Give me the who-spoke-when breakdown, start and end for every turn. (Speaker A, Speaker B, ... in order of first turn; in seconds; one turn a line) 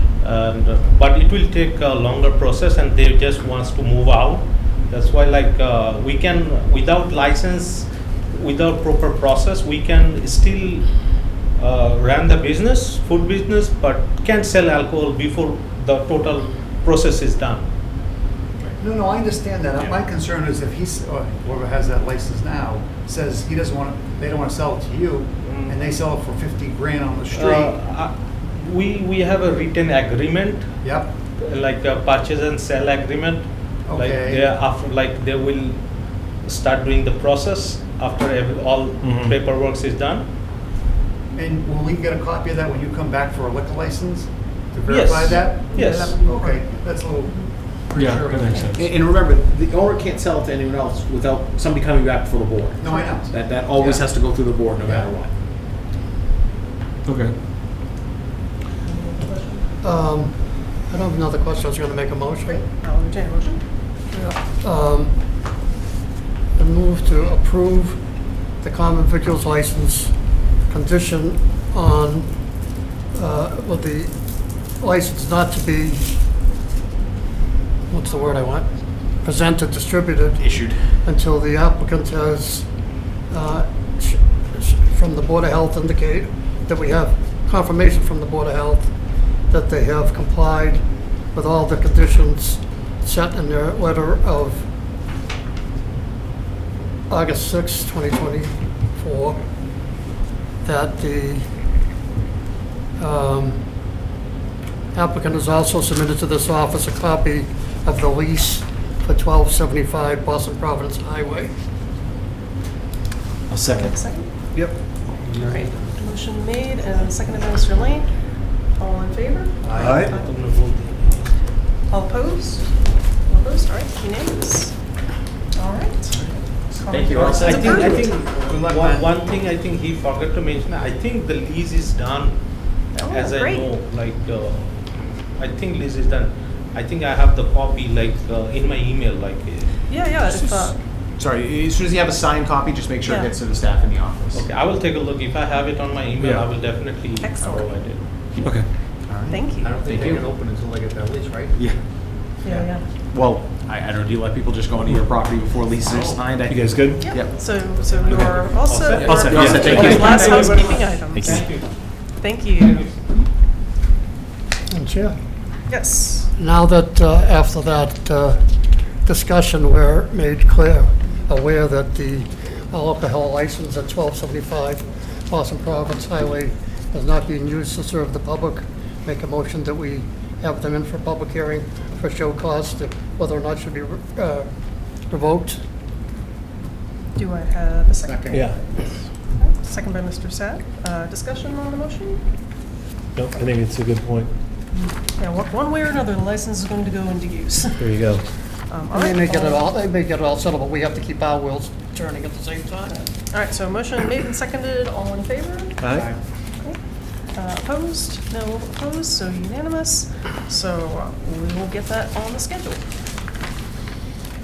Speaker A: 0.2-10.9
Speaker A: 11.6-17.7
Speaker B: 18.8-27.8
Speaker A: 25.4-25.8
Speaker A: 27.3-30.7
Speaker B: 30.8-31.1
Speaker A: 31.4-35.8
Speaker B: 33.9-34.5
Speaker A: 36.4-40.3
Speaker C: 39.0-39.4
Speaker B: 41.3-48.7
Speaker A: 44.9-46.2
Speaker D: 45.3-46.7
Speaker C: 47.9-48.8
Speaker E: 48.7-55.3
Speaker B: 52.8-54.1
Speaker D: 52.8-53.2
Speaker B: 54.8-55.1
Speaker C: 57.0-57.4
Speaker D: 58.8-59.6
Speaker F: 59.8-62.7
Speaker D: 62.5-63.6
Speaker F: 64.1-65.2
Speaker F: 66.5-68.0
Speaker F: 68.6-70.1
Speaker F: 70.7-72.3
Speaker F: 73.1-74.1
Speaker F: 74.8-76.2
Speaker F: 77.9-78.7
Speaker F: 79.2-80.4
Speaker E: 80.4-80.8
Speaker F: 81.0-82.7
Speaker F: 83.3-88.9
Speaker F: 89.5-90.8
Speaker F: 91.3-94.7
Speaker F: 97.1-99.4
Speaker F: 100.6-101.5
Speaker F: 103.0-103.6
Speaker F: 104.9-111.5
Speaker E: 113.5-114.0
Speaker D: 113.6-114.3
Speaker B: 115.2-116.0
Speaker D: 115.3-118.1
Speaker D: 118.7-120.4
Speaker B: 119.6-120.0
Speaker C: 119.8-120.1
Speaker A: 119.9-121.4
Speaker D: 121.9-124.8
Speaker D: 125.5-126.2
Speaker D: 126.7-128.1
Speaker E: 126.8-128.1
Speaker B: 127.1-129.1
Speaker A: 127.1-132.4
Speaker D: 132.9-133.7
Speaker A: 133.0-134.8
Speaker A: 135.3-139.7
Speaker D: 139.9-140.8
Speaker E: 140.3-144.4
Speaker D: 143.0-143.3
Speaker A: 144.3-148.1
Speaker C: 146.2-146.4
Speaker D: 147.2-147.7
Speaker B: 149.1-151.6
Speaker D: 149.3-149.8
Speaker E: 149.8-150.2
Speaker D: 152.4-152.9
Speaker E: 153.1-157.3
Speaker C: 156.5-157.2
Speaker D: 157.0-161.4
Speaker B: 157.7-160.2
Speaker A: 158.0-161.8
Speaker E: 159.0-160.3
Speaker C: 159.1-160.1
Speaker E: 161.1-161.4
Speaker D: 162.2-162.8
Speaker A: 162.5-163.0
Speaker F: 164.7-165.2
Speaker D: 165.7-166.3
Speaker F: 166.3-168.4
Speaker F: 169.0-184.5
Speaker F: 185.0-185.6
Speaker D: 187.2-188.6
Speaker B: 188.1-188.6
Speaker C: 188.3-188.6
Speaker D: 189.3-192.2
Speaker C: 193.1-194.3
Speaker D: 194.8-198.0
Speaker C: 197.8-198.2
Speaker D: 198.7-199.7
Speaker F: 198.9-203.1
Speaker D: 203.2-205.9
Speaker C: 205.8-206.1
Speaker B: 205.9-206.2
Speaker D: 207.3-212.8